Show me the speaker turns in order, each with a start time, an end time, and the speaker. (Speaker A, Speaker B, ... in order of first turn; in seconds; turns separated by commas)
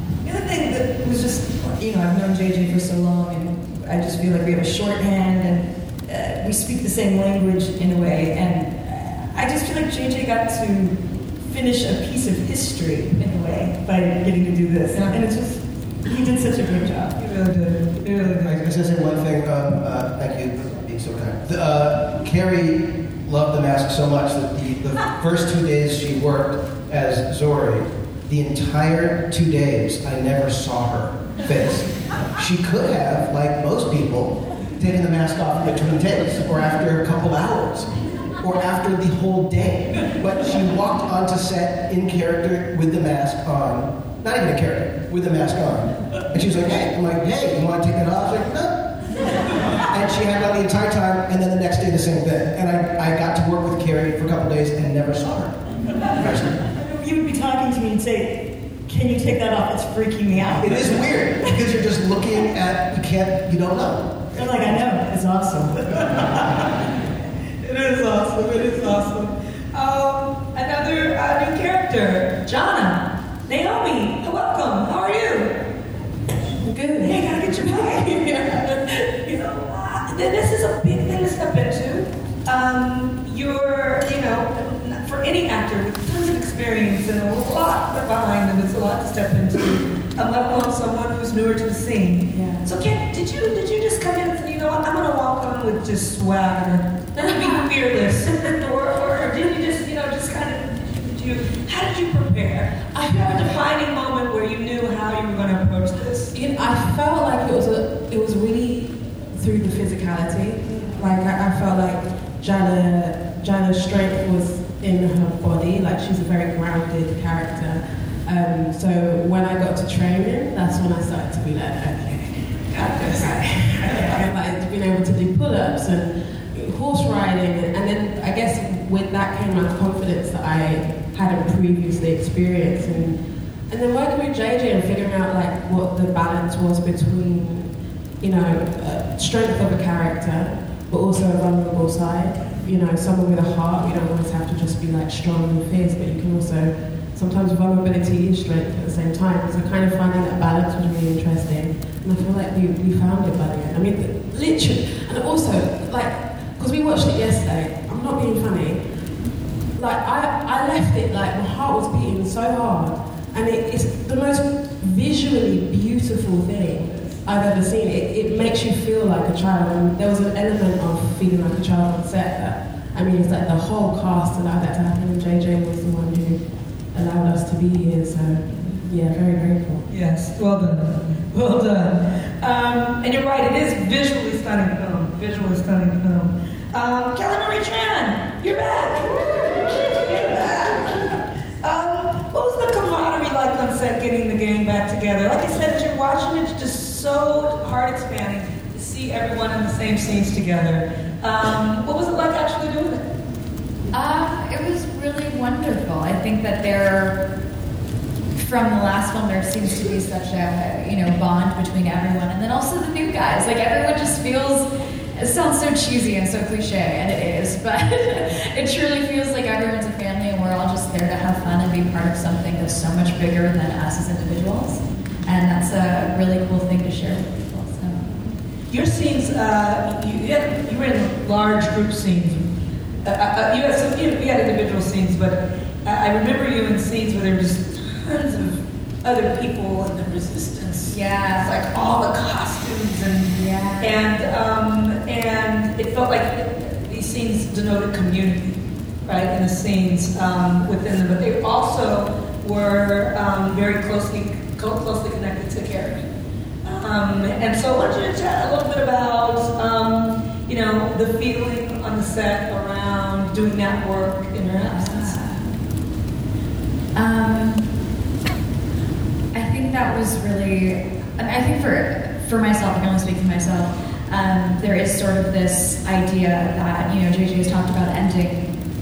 Speaker A: 0.2-17.1, Speaker B: 17.2-18.6, Speaker C: 18.4-48.7, Speaker C: 49.9-55.6, Speaker C: 56.2-56.6, Speaker A: 56.7-58.3, Speaker A: 58.9-61.5, Speaker C: 60.5-64.3, Speaker A: 64.3-66.2, Speaker B: 67.6-75.5, Speaker D: 76.7-77.2, Speaker B: 77.0-106.3, Speaker D: 92.3-92.6, Speaker D: 97.2-97.7, Speaker D: 102.9-103.4, Speaker D: 106.3-133.2, Speaker D: 133.7-137.7, Speaker D: 138.2-158.8, Speaker D: 159.8-176.4, Speaker D: 176.9-179.8, Speaker B: 179.9-191.1, Speaker B: 191.6-203.0, Speaker E: 203.9-207.2, Speaker E: 208.4-228.3, Speaker B: 228.7-232.5, Speaker B: 233.0-256.0, Speaker E: 240.9-241.5, Speaker E: 243.3-243.9, Speaker B: 256.6-265.1, Speaker E: 264.7-265.5, Speaker E: 266.9-267.7, Speaker E: 269.3-278.5